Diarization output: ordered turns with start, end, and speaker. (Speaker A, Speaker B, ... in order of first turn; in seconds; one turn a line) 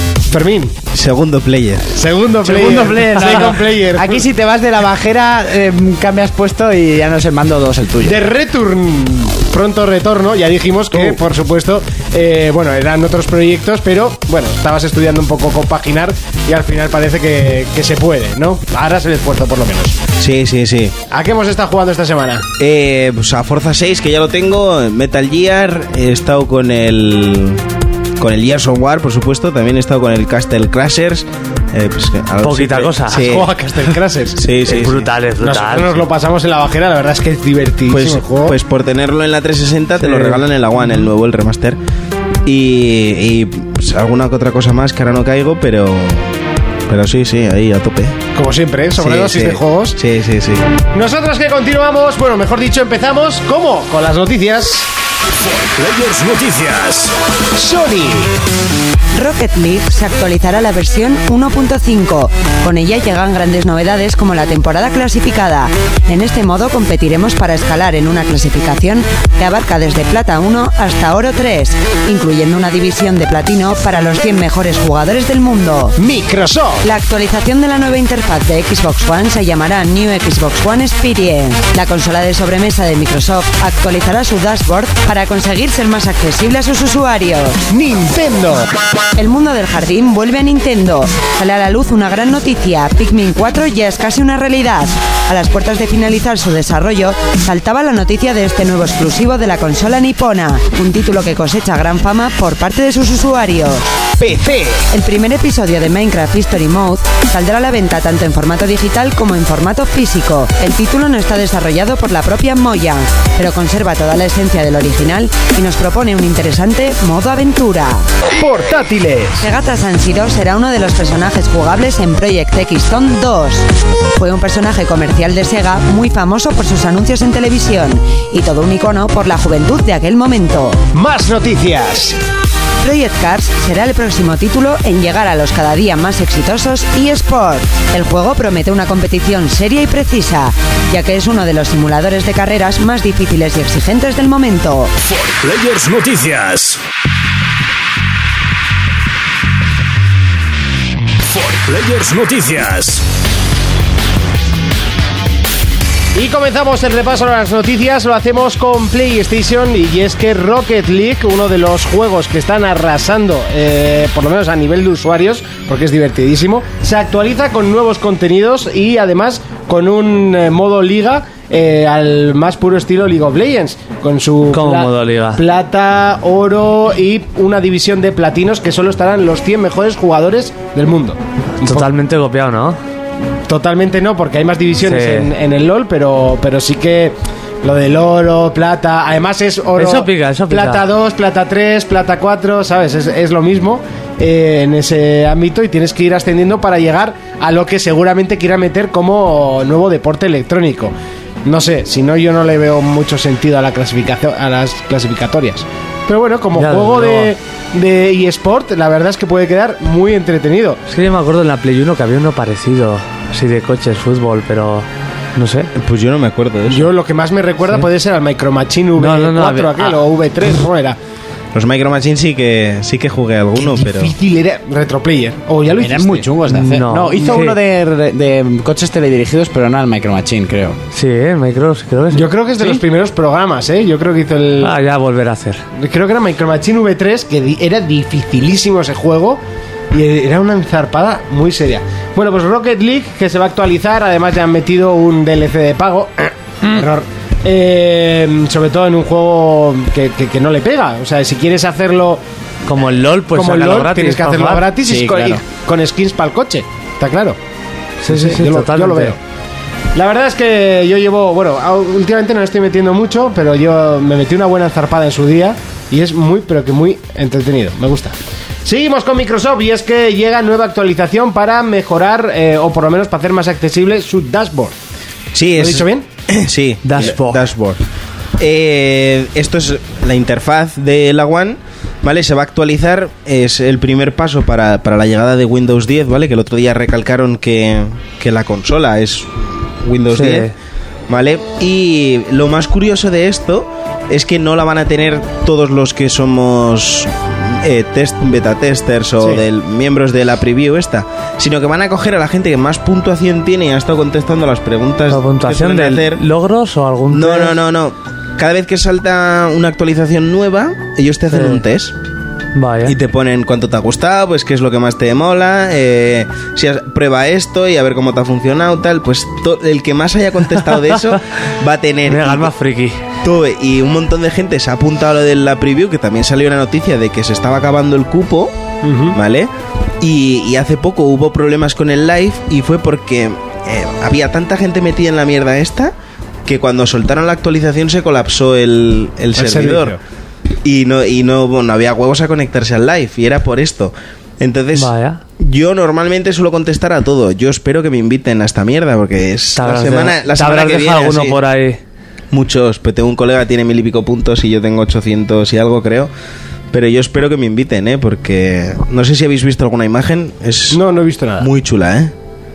Speaker A: 0.3-0.8
Speaker B: 0.9-2.0
Speaker A: 1.9-4.3
Speaker C: 2.4-8.2
Speaker A: 8.0-20.0
Speaker C: 10.9-11.2
Speaker B: 20.2-21.0
Speaker A: 21.1-22.5
Speaker B: 22.6-27.6
Speaker B: 28.2-33.5
Speaker D: 32.4-33.3
Speaker A: 33.1-34.5
Speaker B: 34.4-35.1
Speaker D: 34.7-36.1
Speaker A: 35.4-38.6
Speaker B: 37.9-41.8
Speaker B: 42.5-46.4
Speaker B: 46.9-48.2
Speaker A: 48.4-50.0
Speaker B: 49.0-50.6
Speaker A: 50.9-54.9
Speaker E: 55.4-57.1
Speaker A: 57.5-58.3
Speaker F: 59.1-76.0
Speaker A: 76.0-76.8
Speaker F: 76.8-87.6
Speaker A: 87.7-88.7
Speaker F: 89.2-103.9
Speaker A: 104.2-104.8
Speaker F: 104.9-118.1
Speaker A: 118.3-119.5
Speaker F: 119.4-130.8
Speaker A: 130.9-132.2
Speaker F: 132.8-144.9
Speaker E: 145.1-146.8
Speaker E: 151.2-153.0
Speaker A: 156.2-181.9
Speaker D: 174.5-175.4
Speaker D: 181.6-182.8
Speaker A: 183.5-200.9
Speaker D: 184.8-185.3
Speaker D: 189.8-190.8
Speaker A: 201.4-210.8
Speaker D: 206.6-207.3
Speaker D: 210.9-215.7
Speaker B: 215.8-216.9
Speaker A: 216.7-221.0
Speaker D: 219.0-220.0
Speaker B: 221.5-224.2
Speaker A: 223.6-226.4
Speaker C: 225.8-230.8
Speaker D: 226.5-227.6
Speaker D: 230.9-232.8
Speaker A: 232.1-234.7
Speaker D: 234.6-235.6
Speaker A: 235.8-252.2
Speaker D: 252.7-254.7
Speaker A: 253.3-257.4
Speaker C: 254.8-255.4
Speaker D: 258.0-259.2
Speaker A: 258.1-259.2
Speaker A: 259.9-274.8
Speaker B: 275.3-277.8
Speaker A: 275.6-276.1
Speaker D: 276.9-277.5
Speaker B: 278.4-290.5
Speaker D: 290.1-290.5
Speaker B: 291.1-306.2
Speaker D: 305.1-307.6
Speaker B: 307.1-311.9
Speaker D: 311.3-311.6
Speaker D: 312.6-313.0
Speaker B: 312.9-322.5
Speaker D: 322.1-323.0
Speaker B: 323.2-328.6
Speaker A: 328.8-329.2
Speaker B: 329.1-335.9
Speaker B: 336.5-340.0
Speaker A: 339.4-340.0
Speaker B: 340.6-351.4
Speaker D: 344.8-345.2
Speaker D: 349.6-351.8
Speaker B: 352.3-356.1
Speaker B: 356.7-360.8
Speaker A: 360.7-361.5
Speaker B: 361.4-362.1